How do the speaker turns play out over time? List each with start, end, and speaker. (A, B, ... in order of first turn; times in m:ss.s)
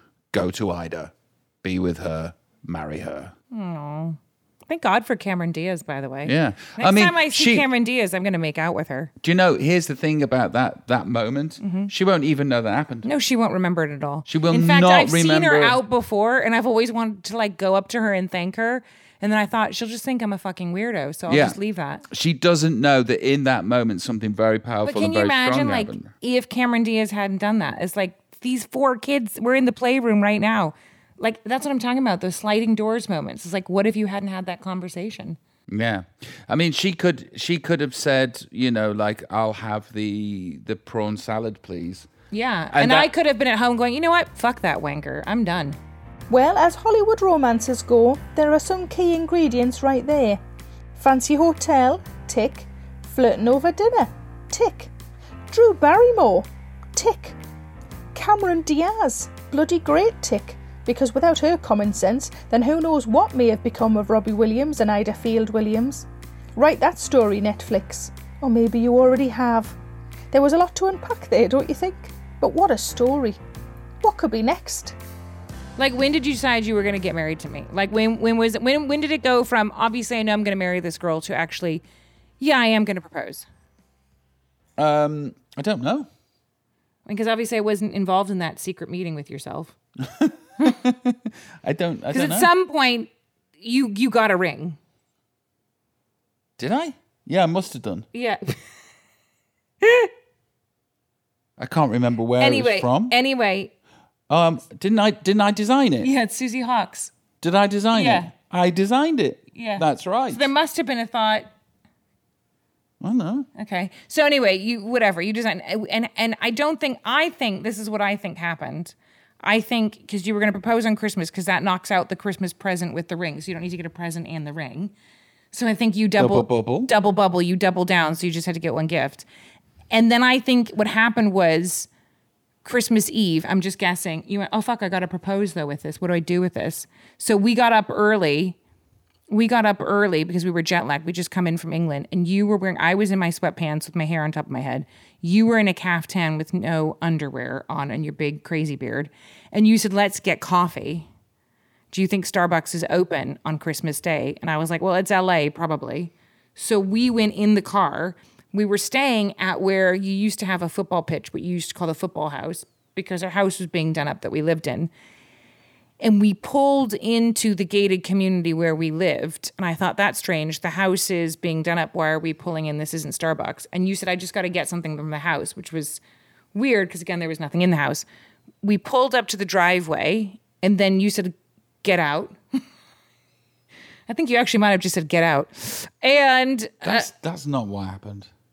0:00.3-0:01.1 A
0:01.6-0:03.3 A
0:03.5-0:09.1 B
0:06.2-0:07.7 A
0:09.2-0:13.1 A
0:11.6-0:11.9 B
0:13.0-0:22.0 B
0:14.2-0:15.8 A
0:21.3-0:21.6 A
0:22.1-0:26.1 A
0:24.8-0:35.4 B
0:35.7-0:42.1 A
0:42.3-0:45.8 B
0:42.7-0:43.1 A
0:46.3-0:50.4 C
0:51.0-0:54.9 C
0:55.5-0:57.4 C
0:58.1-1:09.7 C
1:10.3-1:13.4 C
1:14.0-1:15.0 C
1:15.8-1:21.8 B
1:22.4-1:23.4 B
1:24.8-1:26.1 A
1:27.0-1:29.7 B
1:30.0-1:32.5 A
1:32.1-1:34.8 B
1:36.6-1:38.0 A
1:38.1-1:38.6 B
1:39.8-1:40.1 B
1:41.6-1:43.1 A
1:42.4-1:43.7 B
1:44.3-1:46.1 A
1:46.0-1:47.1 B
1:47.4-1:50.5 A
1:47.9-1:48.3 B
1:49.5-1:51.5 B
1:53.0-1:53.5 A
1:53.6-2:04.9 B
2:05.5-2:09.2 B
2:06.2-2:06.9 A
2:09.9-2:11.9 B
2:12.6-2:18.6 B
2:19.3-2:31.1 B
2:31.9-2:44.9 B
2:46.0-2:56.0 B
2:56.5-2:58.0 B
2:58.6-3:02.6 B
3:04.1-3:07.1 B
3:06.8-3:08.3 A